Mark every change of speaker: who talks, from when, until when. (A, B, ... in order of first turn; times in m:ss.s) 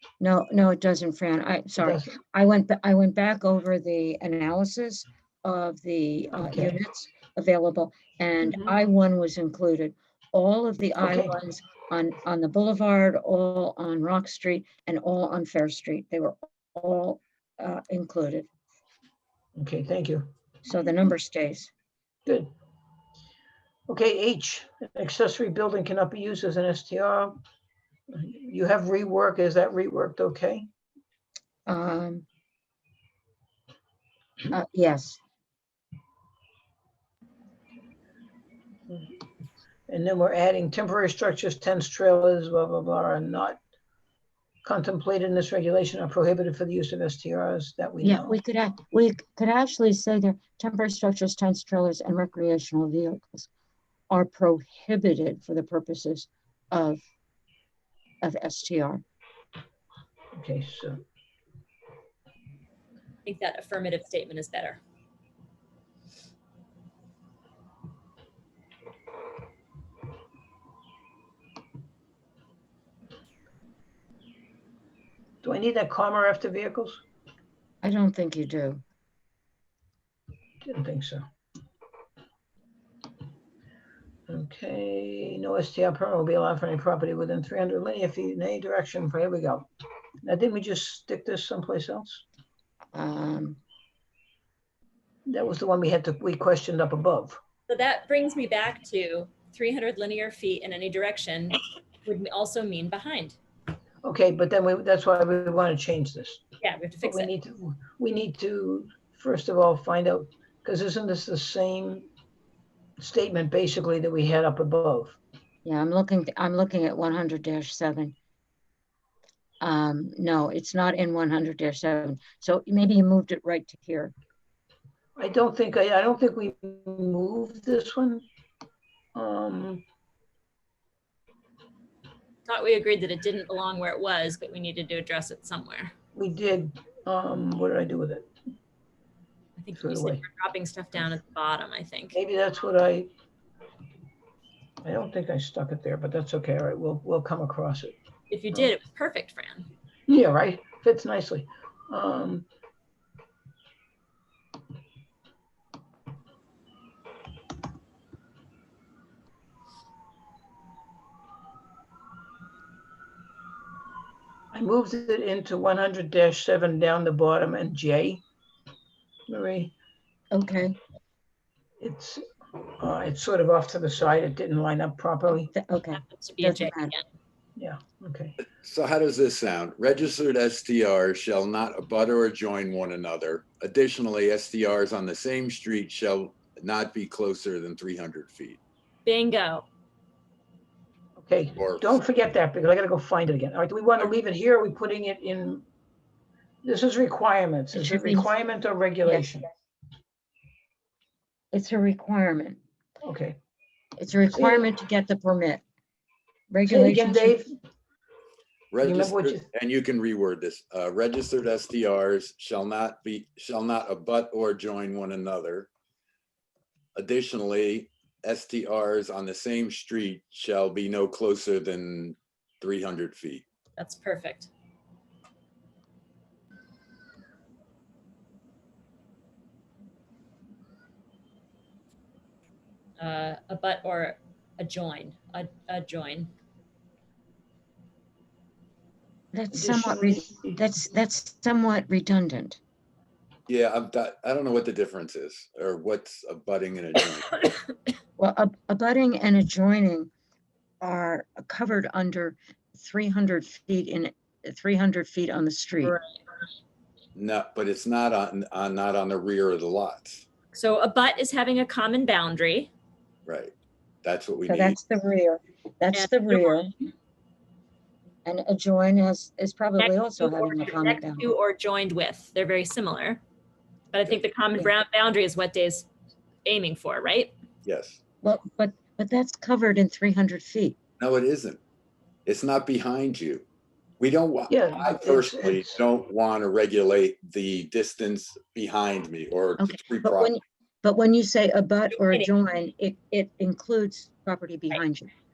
0:00.2-0:18.5 A
0:01.8-0:02.1 B
0:06.4-0:06.8 B
0:08.4-0:08.8 B
0:11.0-0:11.3 B
0:19.6-0:20.3 B
0:20.7-0:21.7 A
0:22.3-0:22.5 B
0:23.9-0:27.4 B
0:28.1-0:30.7 B
0:31.7-0:32.2 A
0:34.5-0:35.2 A
0:39.9-0:43.6 B
0:44.6-0:48.4 B
0:48.0-0:53.5 A
0:54.1-0:57.0 A
0:58.2-0:59.0 A
1:00.4-1:01.0 B
1:03.2-1:04.8 C
1:15.4-1:17.0 B
1:17.8-1:18.8 A
1:20.6-1:21.2 B
1:24.3-1:29.7 B
1:30.2-1:32.2 B
1:32.9-1:33.6 A
1:35.3-1:37.4 B
1:37.7-1:43.4 C
1:44.0-1:46.4 B
1:46.6-1:47.3 C
1:47.0-1:52.1 B
1:53.0-1:55.2 B
1:55.6-1:58.2 A
1:59.6-2:04.1 A
2:05.2-2:08.2 B
2:09.2-2:09.8 B
2:12.5-2:15.9 C
2:16.2-2:18.3 B
2:19.6-2:22.2 C
2:19.8-2:20.2 B
2:22.1-2:23.1 B
2:24.8-2:27.9 B
2:28.3-2:29.7 C
2:30.1-2:32.5 B
2:44.5-2:48.2 B
2:49.3-2:49.7 B
2:50.3-2:50.8 A
2:51.8-2:52.2 B
2:52.8-2:55.5 B
2:55.5-2:56.9 A
2:56.0-2:57.0 C
2:57.6-2:58.4 B
2:58.5-3:08.6 D
3:09.1-3:09.7 C
3:11.2-3:15.6 B
3:11.6-3:12.0 D
3:16.6-3:19.5 B
3:17.7-3:18.3 A
3:21.5-3:22.6 A
3:23.0-3:23.4 B
3:24.0-3:25.6 A
3:24.3-3:24.7 B
3:26.5-3:27.4 A
3:26.7-3:27.5 B
3:28.7-3:35.7 D
3:28.8-3:29.5 B
3:37.0-3:43.4 D
3:43.8-3:44.5 C
3:53.0-3:56.3 C
3:59.3-4:02.6 A
3:59.5-4:00.6 B
4:03.5-4:07.3 D
4:08.2-4:10.1 A
4:10.8-4:16.0 A
4:15.8-4:16.2 C
4:17.2-4:20.2 D
4:20.5-4:22.7 C
4:23.3-4:24.8 D
4:24.5-4:26.7 A
4:25.9-4:26.7 C
4:28.2-4:31.3 A
4:29.8-4:33.2 C
4:33.9-4:35.9 C
4:36.4-4:37.4 C
4:37.6-4:38.0 D
4:38.2-4:40.8 A
4:41.0-4:41.6 D
4:42.3-4:43.4 D
4:44.0-4:50.3 D
4:44.5-4:45.7 B
4:49.6-4:55.1 A
4:51.9-4:52.3 C